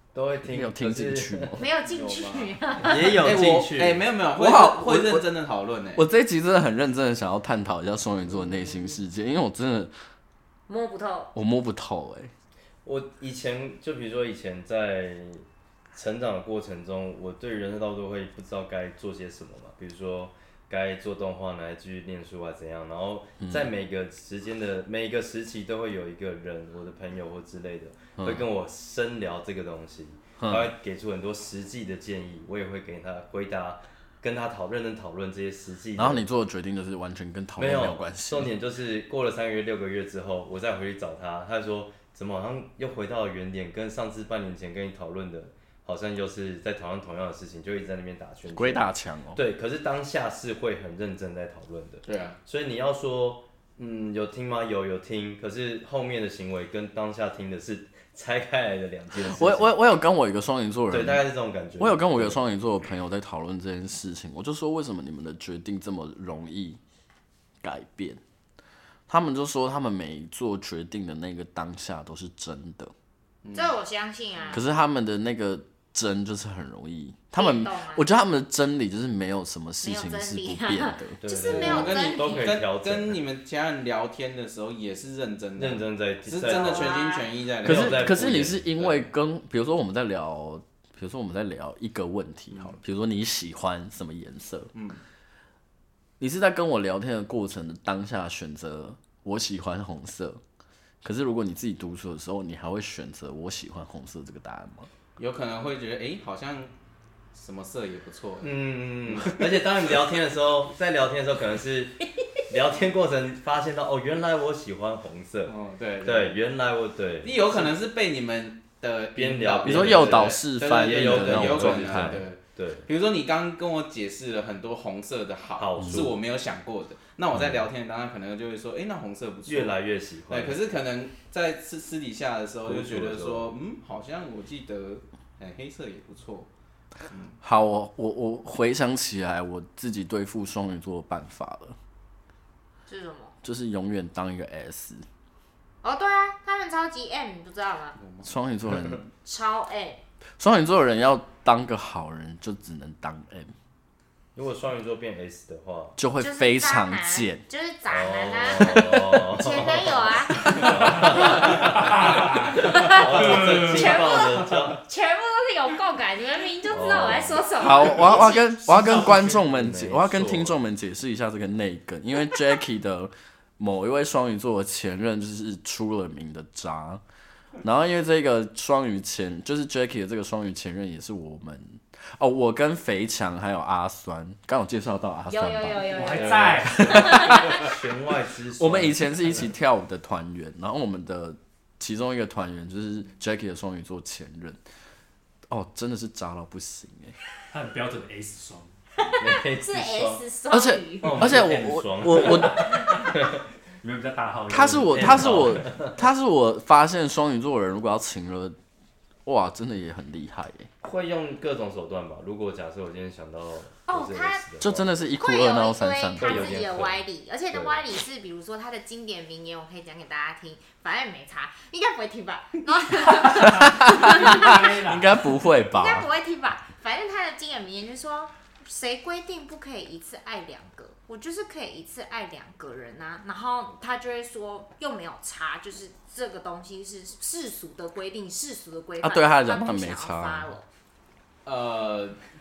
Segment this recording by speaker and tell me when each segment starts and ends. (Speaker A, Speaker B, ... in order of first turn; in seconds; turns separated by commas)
Speaker A: 0.1-1.6, Speaker B: 0.4-1.6, Speaker C: 1.6-3.2, Speaker D: 1.8-6.0, Speaker A: 2.8-4.0, Speaker B: 4.4-5.2, Speaker B: 5.9-9.9, Speaker C: 10.7-11.3, Speaker B: 11.3-12.3, Speaker A: 12.8-36.2, Speaker B: 23.4-23.7, Speaker B: 28.2-28.5, Speaker B: 30.4-30.7, Speaker B: 36.0-38.5, Speaker A: 37.6-59.7, Speaker B: 48.5-49.4, Speaker D: 52.1-52.4, Speaker B: 59.2-61.2, Speaker A: 60.9-62.4, Speaker B: 61.8-66.8, Speaker B: 67.6-68.2, Speaker B: 69.1-72.9, Speaker D: 73.4-73.7, Speaker C: 73.5-74.6, Speaker B: 74.5-81.2, Speaker C: 77.3-78.1, Speaker C: 79.8-82.6, Speaker A: 81.2-83.2, Speaker D: 81.5-89.1, Speaker A: 85.6-87.0, Speaker C: 86.5-87.3, Speaker A: 87.6-88.6, Speaker B: 87.6-94.7, Speaker D: 92.5-92.8, Speaker D: 94.7-95.0, Speaker B: 96.2-100.4, Speaker B: 101.0-104.9, Speaker D: 105.2-106.7, Speaker D: 107.3-108.6, Speaker A: 108.4-117.7, Speaker D: 109.1-109.7, Speaker D: 115.5-116.4, Speaker D: 117.2-129.8, Speaker A: 119.1-122.9, Speaker B: 119.6-122.2, Speaker A: 125.6-126.2, Speaker B: 125.8-126.1, Speaker A: 129.4-130.6, Speaker D: 130.3-136.5, Speaker A: 132.7-133.5, Speaker D: 137.1-137.4, Speaker B: 137.4-141.8, Speaker C: 142.9-143.3, Speaker B: 143.4-145.1, Speaker C: 145.8-148.0, Speaker D: 148.0-148.3, Speaker B: 148.2-149.1, Speaker C: 149.2-150.0, Speaker B: 150.4-153.5, Speaker A: 154.3-156.0, Speaker B: 156.0-157.4, Speaker C: 156.2-161.6, Speaker A: 157.9-164.8, Speaker E: 161.8-162.6, Speaker C: 162.4-168.3, Speaker A: 166.7-170.6, Speaker B: 167.6-177.0, Speaker B: 177.6-186.1, Speaker C: 185.3-187.6, Speaker E: 185.9-187.2, Speaker B: 186.8-187.6, Speaker A: 186.8-189.4, Speaker B: 188.6-194.6, Speaker B: 195.5-197.1, Speaker E: 197.5-198.8, Speaker A: 199.2-200.2, Speaker C: 199.2-201.3, Speaker B: 200.5-202.7, Speaker A: 201.0-203.4, Speaker E: 202.1-203.2, Speaker E: 203.8-205.7, Speaker B: 204.5-208.6, Speaker A: 204.9-206.0, Speaker B: 209.2-210.7, Speaker A: 210.8-214.9, Speaker C: 213.9-214.4, Speaker B: 214.6-216.7, Speaker C: 215.2-224.8, Speaker A: 216.2-217.8, Speaker E: 223.3-225.1, Speaker B: 223.4-226.1, Speaker C: 225.7-240.7, Speaker B: 239.0-240.5, Speaker D: 241.4-242.2